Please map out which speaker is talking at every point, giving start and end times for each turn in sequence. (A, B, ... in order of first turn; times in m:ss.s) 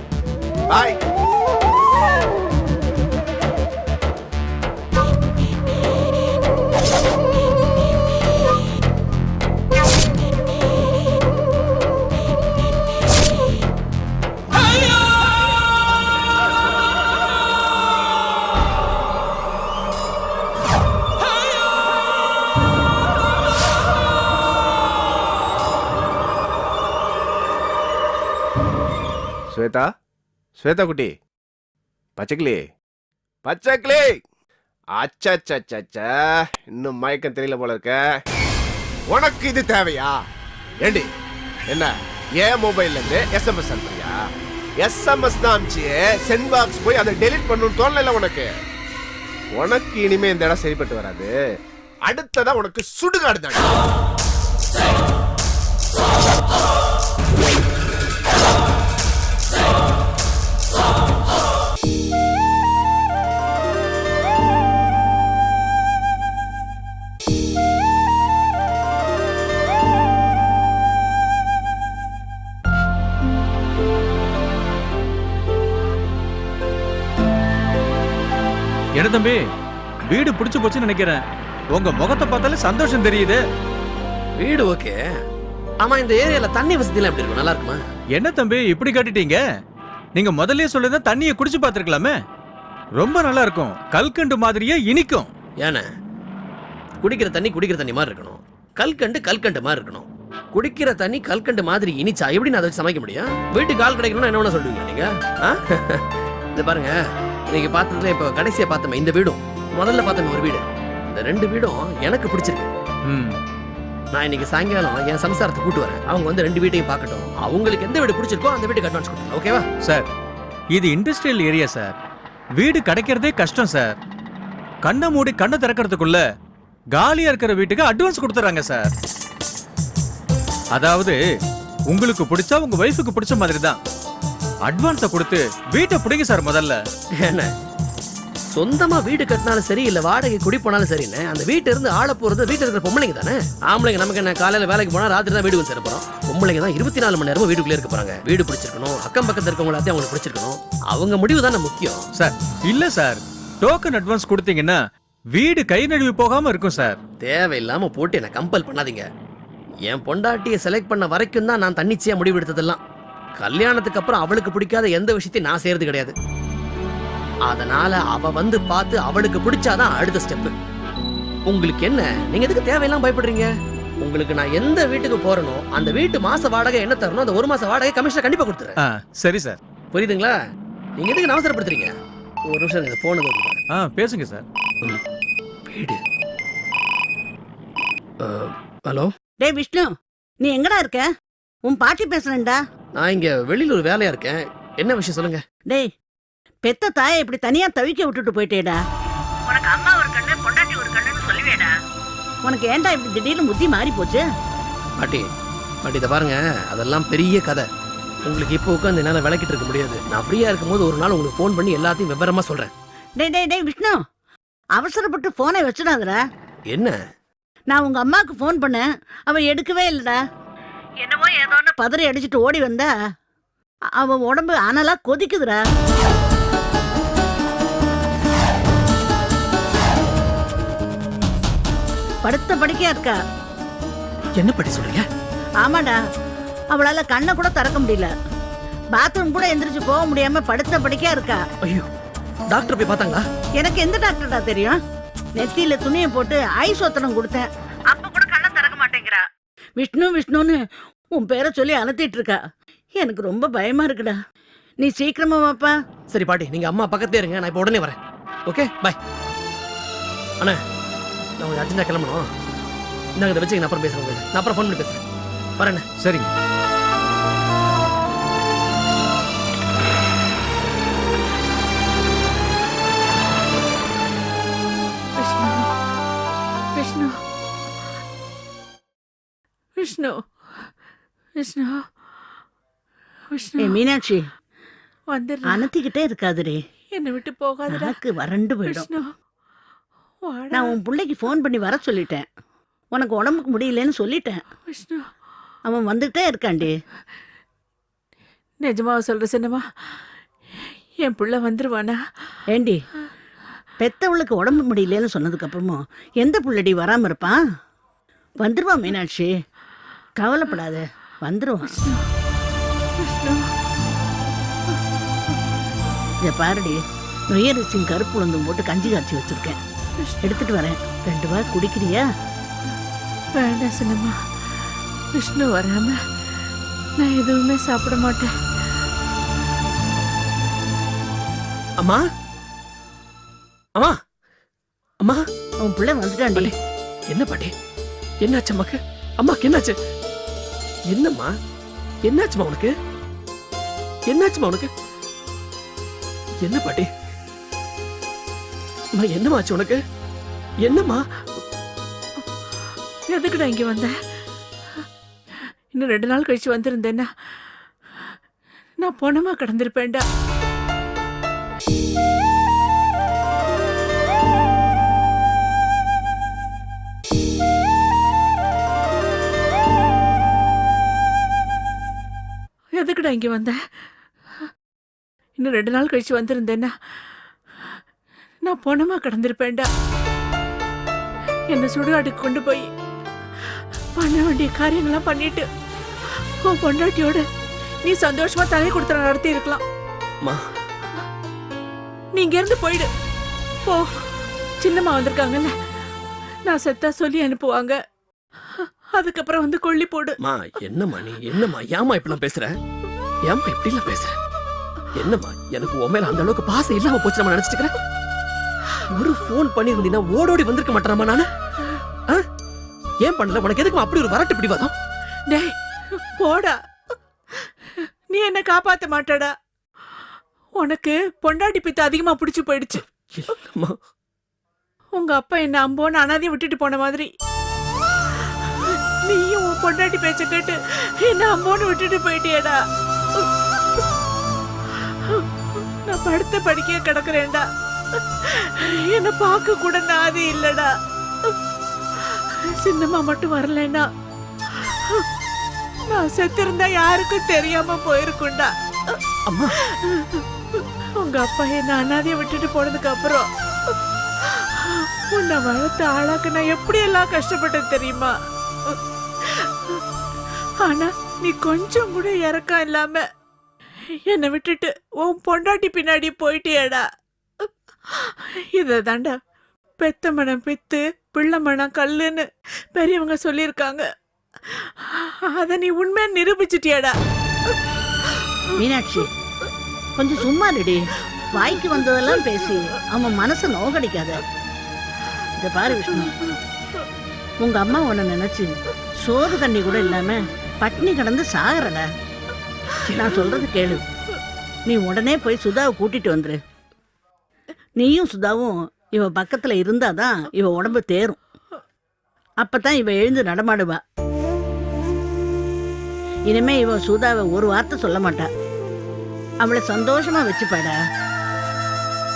0:00.7-0:01.0 A
0:29.5-0:29.9 A
0:30.6-0:31.1 A
0:32.2-0:32.6 A
0:33.4-0:34.2 A
0:35.0-0:36.1 A
0:36.7-0:38.0 A
0:39.1-0:40.2 A
0:40.8-0:41.1 A
0:41.7-0:44.2 A
0:44.8-0:48.5 A
0:49.5-0:51.3 A
0:52.1-0:53.7 A
1:19.0-1:19.4 B
1:20.0-1:23.4 B
1:24.4-1:25.0 C
1:25.8-1:27.8 C
1:28.1-1:29.4 B
1:30.1-1:32.1 B
1:33.0-1:35.3 B
1:37.0-1:46.0 C
1:46.6-1:46.9 C
1:47.5-1:52.7 C
1:53.0-1:53.4 B
1:54.1-1:59.6 C
1:59.8-2:00.1 B
2:00.7-2:01.9 B
2:02.6-2:04.0 B
2:04.8-2:06.2 B
2:06.9-2:08.9 B
2:10.7-2:11.2 B
2:11.9-2:13.8 B
2:14.6-2:16.8 B
2:17.2-2:17.5 C
2:18.5-2:32.0 C
2:32.1-2:34.8 B
2:35.3-2:37.0 B
2:37.2-2:39.0 C
2:39.9-2:42.8 C
2:43.4-2:46.1 C
2:47.5-2:50.5 C
2:51.5-2:53.5 C
2:54.0-2:58.8 C
2:58.8-2:59.6 B
2:59.9-3:00.3 C
3:01.0-3:01.9 C
3:02.5-3:03.6 C
3:03.7-3:04.4 B
3:05.7-3:06.0 C
3:08.2-3:09.1 C
3:09.4-3:09.9 D
3:10.4-3:11.1 D
3:11.7-3:12.6 D
3:12.9-3:15.4 C
3:16.6-3:18.8 D
3:19.5-3:21.7 D
3:22.4-3:24.2 D
3:25.8-3:27.6 C
3:28.2-3:32.7 C
3:33.2-3:34.0 D
3:34.8-3:36.2 D
3:37.7-3:40.2 D
3:41.0-3:42.9 D
3:44.0-3:45.6 D
3:52.2-3:53.2 D
3:54.4-3:55.0 C
3:55.6-3:56.0 D
3:56.7-3:58.1 D
3:58.9-4:01.4 D
4:02.5-4:03.2 C
4:03.6-4:04.8 D
4:05.4-4:09.2 D
4:09.8-4:10.6 D
4:11.1-4:12.4 D
4:13.0-4:14.2 D
4:14.8-4:15.7 D
4:16.1-4:18.0 C
4:18.5-4:19.0 C
4:21.4-4:22.3 C
4:23.2-4:25.0 C
4:25.6-4:25.8 C
4:26.0-4:26.3 B
4:35.2-4:35.7 E
4:36.7-4:37.1 E
4:39.8-4:40.2 E
4:41.4-4:41.8 E
4:43.3-4:43.8 E
4:43.6-4:44.2 D
4:45.1-4:45.6 E
4:45.5-4:46.6 D
4:46.9-4:48.0 E
4:47.7-4:48.9 D
4:48.6-4:49.0 E
4:50.2-4:50.8 E
4:50.5-4:52.2 D
4:52.9-4:54.4 D
4:54.7-4:55.1 E
4:55.6-4:56.7 D
4:58.6-5:00.0 E
5:01.0-5:02.4 E
5:02.5-5:02.8 D
5:03.8-5:07.4 D
5:08.4-5:09.3 D
5:10.2-5:11.9 D
5:11.7-5:12.0 E
5:13.0-5:13.5 E
5:16.2-5:16.8 D
5:17.3-5:19.6 D
5:20.0-5:20.3 E
5:20.2-5:22.0 D
5:23.4-5:24.2 E
5:25.1-5:26.4 E
5:27.0-5:28.3 E
5:35.6-5:36.5 D
5:37.1-5:37.5 C
5:38.2-5:39.8 C
5:40.9-5:41.3 C
5:42.0-5:42.7 C
5:44.1-5:44.7 C
5:46.4-5:46.9 C
5:49.0-5:49.8 C
5:50.6-5:51.0 C
5:53.1-5:53.9 E
5:55.7-5:57.1 E
5:58.8-6:00.0 E
6:12.8-6:13.6 E
6:15.4-6:16.7 E
6:18.4-6:19.7 E
6:21.5-6:22.7 E
6:24.0-6:25.4 E
6:26.4-6:27.2 E
6:27.8-6:29.6 E
6:32.1-6:32.9 E
6:33.6-6:34.0 E
6:34.6-6:35.5 E
6:36.5-6:37.8 E
6:38.6-6:40.2 E
6:40.2-6:42.5 C
6:43.3-6:44.1 C
6:45.0-6:47.7 C
6:48.9-6:51.3 C
6:53.0-6:54.7 C
6:55.3-6:55.5 E
6:56.1-6:56.6 E
6:58.1-6:59.3 E
7:00.6-7:02.8 E
7:03.0-7:03.7 C
7:05.0-7:07.1 E
7:08.4-7:12.6 E
7:14.7-7:17.4 E
7:18.2-7:20.7 E
7:22.0-7:23.8 E
7:24.6-7:25.1 E
7:25.9-7:28.5 E
7:29.3-7:29.5 C
7:29.7-7:33.3 E
7:34.2-7:38.1 E
7:38.7-7:39.8 E
7:40.6-7:43.0 E
7:44.1-7:46.8 E
7:47.9-7:49.1 E
7:49.8-7:53.8 E
7:54.5-7:56.9 E
7:58.6-7:59.1 D
8:00.0-8:00.8 D
8:01.3-8:04.2 D
8:05.4-8:06.1 D
8:07.4-8:08.5 D
8:09.0-8:11.8 D
8:12.8-8:13.2 C
8:12.9-8:13.8 D
8:14.7-8:16.4 D
8:17.8-8:21.2 D
8:22.4-8:23.8 D
8:26.3-8:28.3 D
8:29.4-8:30.7 D